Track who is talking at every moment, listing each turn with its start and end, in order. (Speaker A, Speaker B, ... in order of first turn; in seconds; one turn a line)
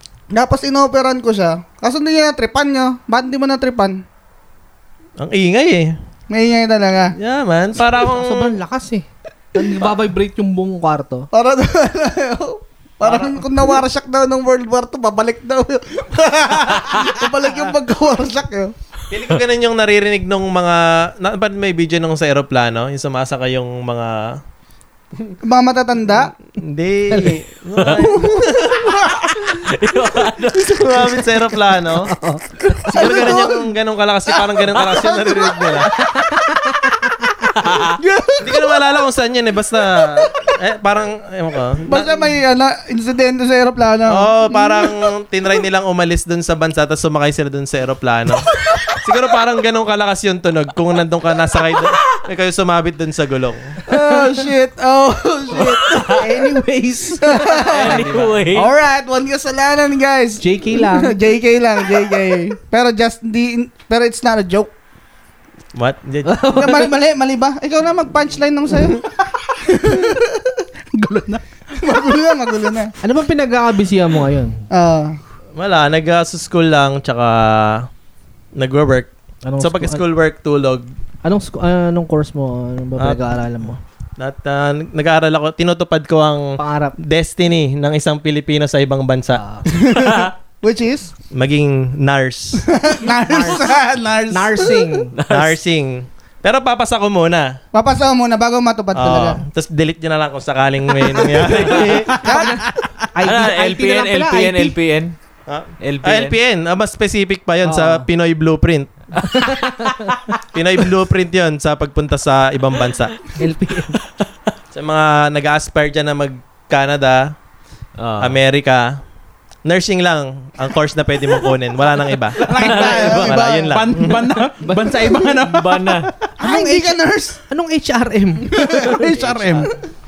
Speaker A: 0.3-4.0
Speaker B: 5.2-6.0
Speaker A: 6.3-7.1
Speaker B: 7.2-8.6
Speaker C: 8.0-11.3
Speaker A: 11.3-18.7
Speaker B: 13.0-13.5
Speaker B: 19.1-24.4
Speaker A: 25.4-26.3
Speaker B: 26.6-28.9
Speaker C: 27.1-27.4
Speaker D: 27.8-28.1
Speaker A: 27.9-29.6
Speaker D: 29.3-31.2
Speaker B: 30.7-32.1
Speaker C: 32.0-33.4
Speaker A: 32.9-33.7
Speaker B: 32.9-35.9
Speaker A: 34.3-35.9
Speaker C: 35.9-37.3
Speaker D: 37.6-38.0
Speaker A: 37.6-39.0
Speaker B: 38.4-42.3
Speaker A: 39.9-40.5
Speaker A: 41.9-44.9
Speaker B: 44.1-53.8
Speaker A: 53.9-56.6
Speaker C: 53.9-54.4
Speaker D: 55.6-56.2
Speaker C: 55.9-58.0
Speaker A: 57.2-64.7
Speaker D: 57.6-58.7
Speaker E: 57.9-58.4
Speaker C: 60.4-61.1
Speaker B: 65.7-66.4
Speaker C: 66.2-66.9
Speaker A: 66.5-69.1
Speaker A: 69.7-70.7
Speaker E: 70.9-71.4
Speaker A: 71.8-72.9
Speaker C: 73.0-74.6
Speaker A: 74.7-75.2
Speaker B: 75.5-77.9
Speaker B: 78.5-80.9
Speaker C: 79.5-80.0
Speaker C: 81.2-83.8
Speaker B: 84.2-89.4
Speaker C: 86.6-87.0
Speaker C: 89.3-89.7
Speaker A: 89.7-91.1
Speaker B: 91.3-92.7
Speaker A: 92.6-94.9
Speaker C: 93.2-93.7
Speaker C: 94.3-95.1
Speaker D: 95.1-95.6
Speaker B: 95.3-97.5
Speaker A: 97.7-99.4
Speaker B: 98.9-102.2
Speaker A: 101.1-102.9
Speaker C: 102.1-104.8
Speaker D: 103.2-105.1
Speaker B: 105.5-108.9
Speaker D: 105.8-106.3
Speaker C: 107.6-108.0
Speaker C: 109.2-110.3
Speaker B: 110.4-113.2
Speaker C: 113.4-114.0
Speaker B: 114.7-117.3
Speaker D: 118.0-118.3
Speaker B: 118.2-119.0
Speaker B: 119.6-122.4
Speaker E: 122.4-126.3
Speaker A: 122.4-123.5
Speaker D: 122.6-122.9
Speaker B: 123.0-124.2
Speaker C: 124.6-125.3
Speaker D: 125.5-126.1
Speaker A: 126.4-127.4
Speaker C: 126.4-129.1
Speaker A: 128.5-129.7
Speaker E: 128.8-129.7
Speaker D: 129.1-129.7